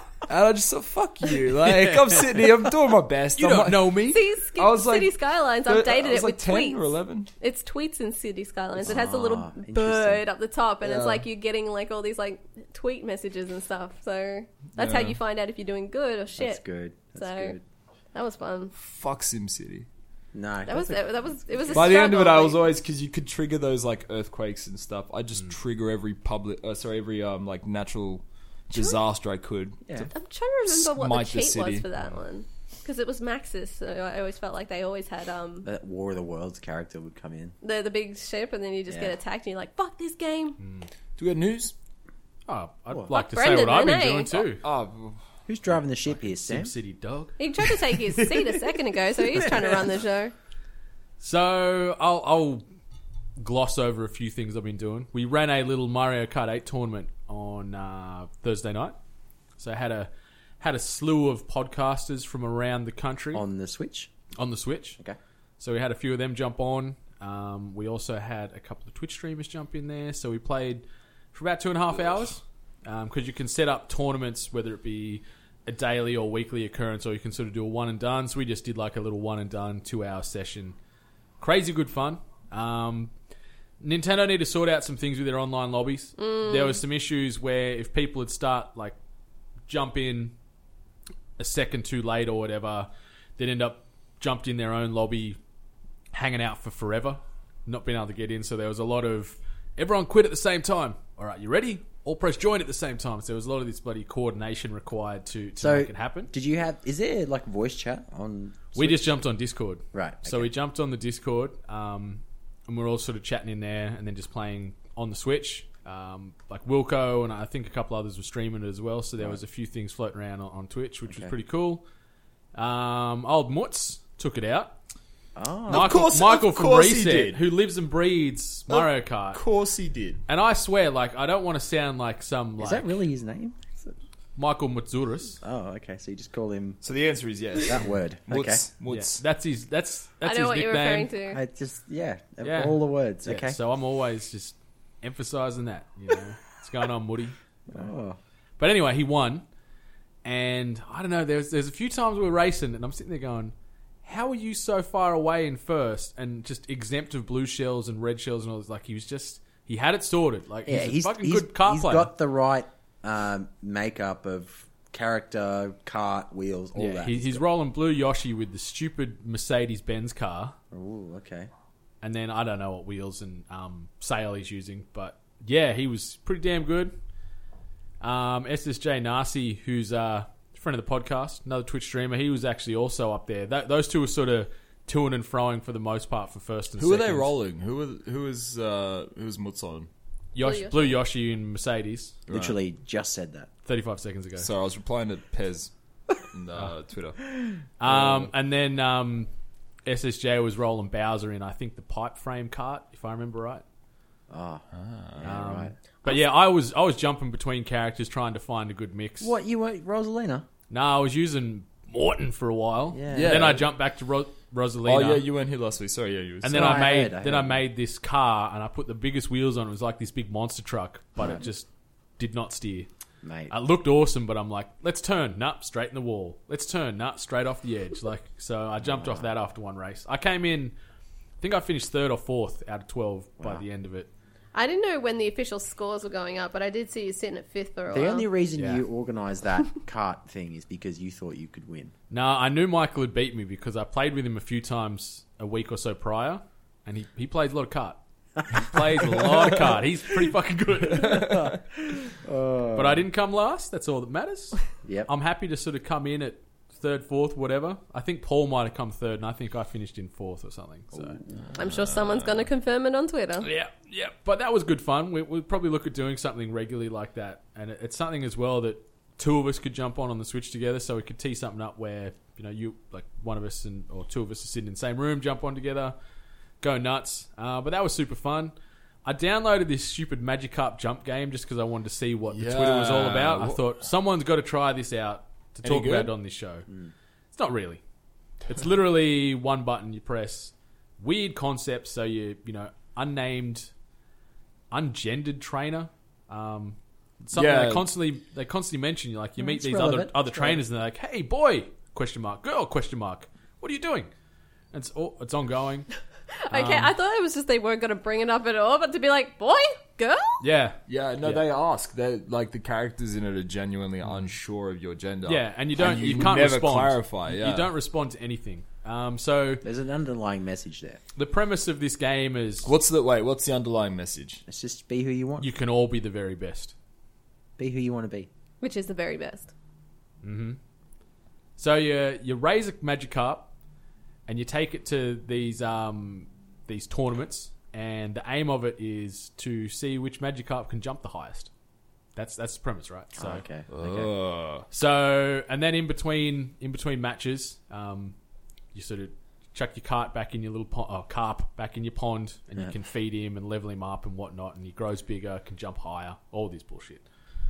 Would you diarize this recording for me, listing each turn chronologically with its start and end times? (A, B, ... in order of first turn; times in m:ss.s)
0:00.2-0:04.0 A
0:01.6-0:02.4 B
0:03.4-0:04.2 B
0:04.1-0:16.6 C
0:04.5-0:07.3 A
0:08.8-0:10.2 D
0:10.8-0:11.3 A
0:14.8-0:15.2 A
0:16.4-0:17.6 D
0:17.2-0:17.6 C
0:18.1-0:18.7 C
0:18.8-0:19.9 A
0:20.3-0:21.8 D
0:20.7-0:22.7 C
0:21.7-0:30.1 A
0:28.7-0:29.0 C
0:30.1-0:35.7 C
0:30.7-0:31.8 A
0:35.6-0:37.5 D
0:37.6-0:40.6 C
0:38.9-0:39.1 D
0:40.6-0:40.9 B
0:41.2-0:41.7 A
0:42.5-0:44.6 B
0:43.1-0:44.4 C
0:44.4-0:45.2 A
0:45.5-0:46.7 D
0:46.1-0:47.4 B
0:47.4-0:50.3 C
0:51.2-0:52.6 B
0:53.4-0:59.0 B
0:59.6-1:03.4 B
1:03.3-1:04.1 D
1:04.4-1:05.0 B
1:05.6-1:20.8 B
1:21.4-1:23.1 B
1:23.8-1:29.0 B
1:26.2-1:26.8 C
1:29.7-1:30.3 B
1:31.4-1:35.4 B
1:36.1-1:46.3 B
1:45.6-1:49.2 D
1:48.7-2:01.8 B
1:49.9-1:50.5 D
2:01.1-2:01.3 D
2:02.5-2:04.8 B
2:05.4-2:06.0 D
2:05.7-2:07.4 A
2:05.7-2:09.4 B
2:08.7-2:10.2 A
2:10.3-2:13.0 B
2:12.6-2:13.9 D
2:14.4-2:15.4 B
2:15.4-2:16.8 D
2:16.8-2:19.2 A
2:17.6-2:18.6 D
2:18.9-2:21.1 B
2:20.2-2:21.4 C
2:21.3-2:23.6 D
2:22.4-2:27.9 B
2:27.7-2:28.2 D
2:28.6-2:29.4 B
2:30.2-2:42.1 B
2:40.6-2:47.4 D
2:46.7-2:50.6 B
2:50.7-2:51.5 D
2:52.0-2:57.0 B
2:58.0-3:07.3 B
3:06.8-3:09.9 A
3:10.3-3:12.2 B
3:10.4-3:11.0 C
3:12.3-3:12.6 A
3:12.3-3:13.5 D
3:13.6-3:14.5 B
3:14.4-3:17.2 A
3:17.8-3:19.3 B
3:17.9-3:18.3 A
3:19.8-3:23.6 B
3:24.3-3:24.6 D
3:24.7-3:25.3 A
3:25.2-3:26.1 D
3:25.2-3:29.3 B
3:29.2-3:30.4 D
3:30.7-3:35.3 B
3:32.9-3:33.6 D
3:33.1-3:33.6 A
3:34.8-3:36.8 A
3:36.4-3:42.9 B
3:36.5-3:37.6 D
3:41.2-3:41.4 D
3:43.2-3:43.5 D
3:43.5-3:50.7 B
3:48.8-3:49.3 D
3:51.4-3:54.1 B
3:53.4-3:53.6 D
3:54.5-3:58.3 C
3:57.9-4:01.9 D
3:58.6-3:58.8 B
4:02.1-4:11.5 B
4:11.0-4:11.4 A
4:11.0-4:13.0 D
4:12.7-4:21.2 B
4:14.8-4:15.1 D
4:20.9-4:21.2 D
4:21.4-4:22.4 A
4:21.6-4:23.5 C
4:23.4-4:35.9 B
4:36.6-4:38.5 B
4:39.0-4:46.7 B
4:42.3-4:43.6 A
4:45.6-4:46.1 A
4:47.3-4:47.8 B
4:48.5-4:53.7 B
4:54.7-5:04.1 B
4:57.3-4:57.9 A
4:59.4-5:00.6 D
5:04.7-5:05.9 B
5:06.5-5:06.9 B
5:06.5-5:10.4 C
5:10.4-5:11.4 B
5:10.9-5:17.7 A
5:14.0-5:14.3 B
5:15.2-5:19.6 B
5:19.6-5:21.0 D
5:21.1-5:22.7 B
5:22.6-5:24.4 A
5:24.5-5:25.5 D
5:25.4-5:26.7 B
5:27.6-5:28.3 D
5:28.6-5:29.5 C
5:30.2-5:30.6 B
5:31.6-5:33.5 B
5:34.3-5:41.5 B
5:42.2-5:44.1 B
5:43.1-5:44.0 D
5:43.7-5:44.6 A
5:44.7-5:48.1 B
5:48.7-5:57.0 B